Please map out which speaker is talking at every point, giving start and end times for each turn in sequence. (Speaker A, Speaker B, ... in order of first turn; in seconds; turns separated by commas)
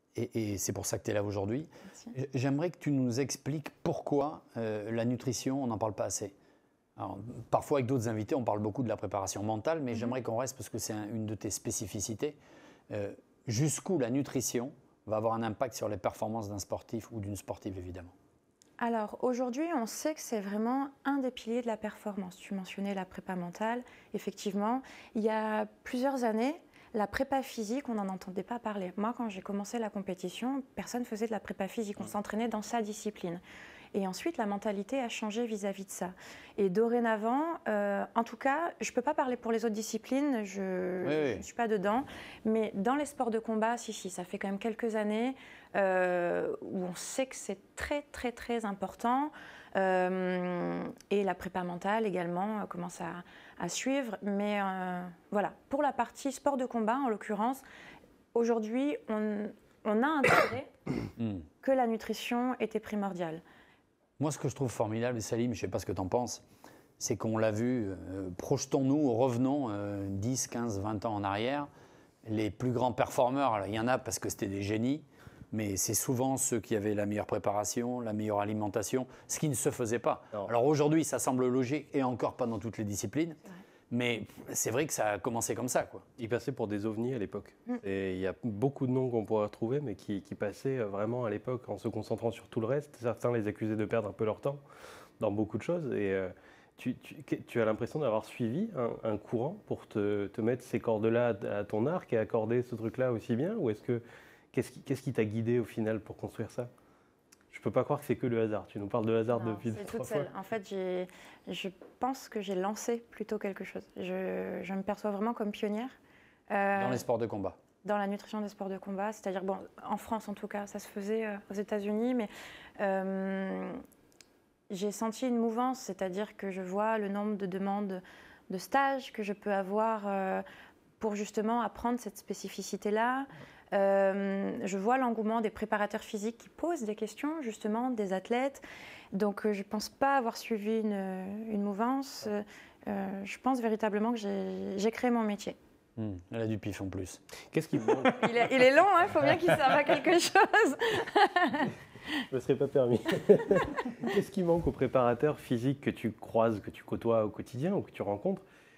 Speaker A: 0.1-6.3, Speaker A: 7.0-12.4, Speaker A: 12.9-18.1, Speaker B: 18.8-33.4, Speaker B: 33.9-57.6, Speaker A: 41.0-41.4, Speaker B: 58.3-60.7, Speaker A: 61.2-61.5, Speaker B: 61.6-63.4, Speaker A: 64.2-66.4, Speaker A: 67.0-71.7, Speaker A: 72.2-83.4, Speaker A: 83.9-86.0, Speaker C: 86.2-94.6, Speaker C: 95.2-106.7, Speaker C: 107.5-110.3, Speaker B: 109.3-116.0, Speaker B: 116.5-117.0, Speaker A: 116.8-117.6, Speaker B: 117.8-123.8, Speaker B: 124.7-130.4, Speaker B: 131.0-138.6, Speaker B: 139.1-145.6, Speaker A: 146.0-147.2, Speaker C: 147.5-148.3, Speaker B: 148.0-151.7, Speaker C: 152.3-158.4